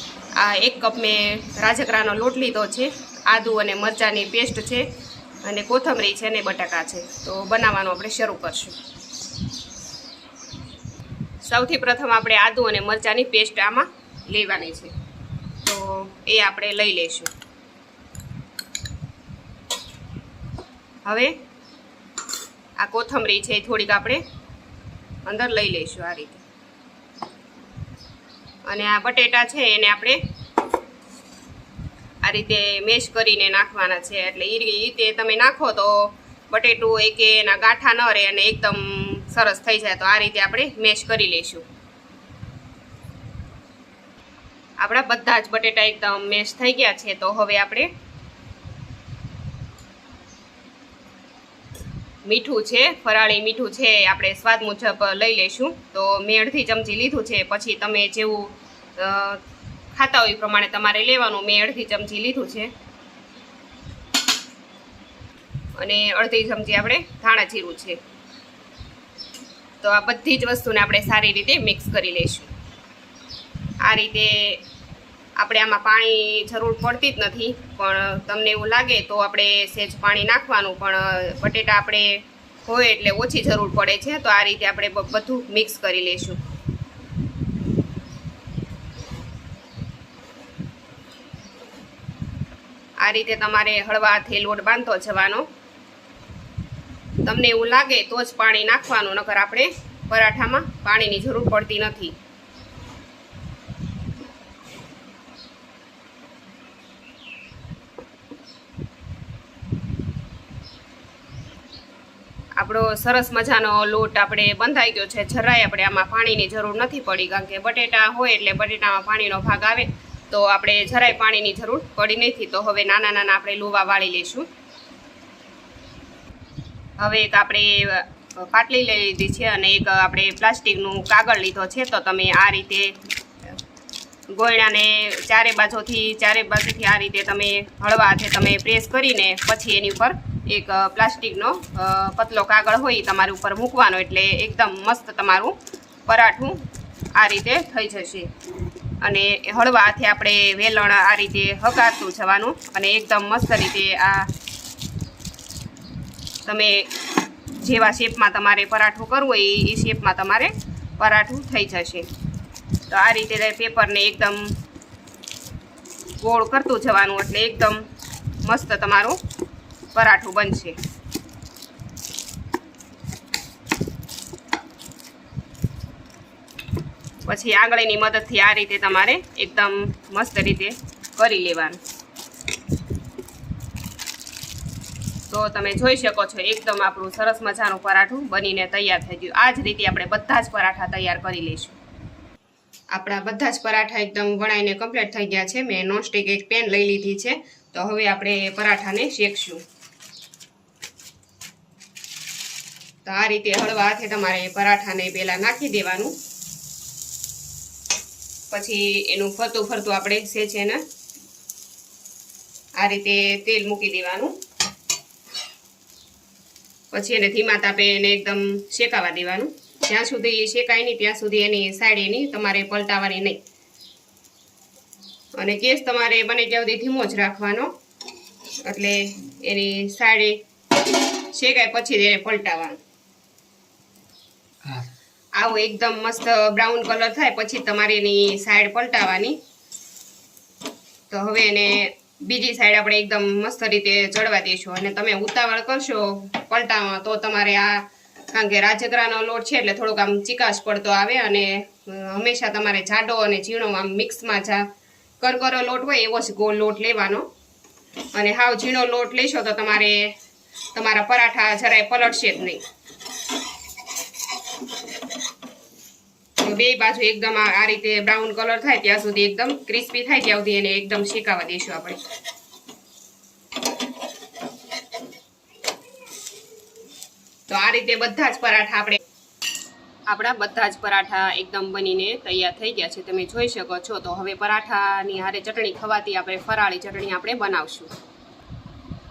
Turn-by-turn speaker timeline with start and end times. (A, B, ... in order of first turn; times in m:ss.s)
0:00.4-0:04.9 A
0:05.4-0:08.8 A
0:11.4-0:14.9 A
0:15.6-0:17.3 A
0:21.0-0:21.4 A
0:22.8-0:24.2 A
0:25.3-0:26.4 A
0:28.7-0:30.2 A
0:32.2-0:41.6 A
0:44.8-0:47.9 A
0:52.3-0:59.4 A
0:59.9-1:02.7 A
1:05.8-1:08.0 A
1:09.8-1:12.5 A
1:13.8-1:14.6 A
1:15.4-1:26.4 A
1:33.0-1:35.5 A
1:37.2-1:42.2 A
1:52.6-2:04.5 A
2:07.0-2:13.0 A
2:14.3-2:26.6 A
2:27.2-2:28.3 A
2:29.0-2:34.3 A
2:36.5-2:42.1 A
2:42.9-2:44.6 A
2:46.2-2:47.8 A
2:48.4-2:49.2 A
2:49.9-2:50.8 A
2:57.3-3:01.8 A
3:05.3-3:11.8 A
3:12.9-3:19.6 A
3:23.0-3:26.2 A
3:28.5-3:30.8 A
3:32.8-3:34.4 A
3:36.9-3:43.4 A
3:45.4-3:47.7 A
3:48.6-3:52.8 A
3:55.4-3:59.4 A
4:01.1-4:14.6 A
4:15.2-4:17.3 A
4:18.1-4:20.1 A
4:20.7-4:22.6 A
4:26.4-4:32.0 A
4:37.5-4:39.0 A
4:40.1-4:47.9 A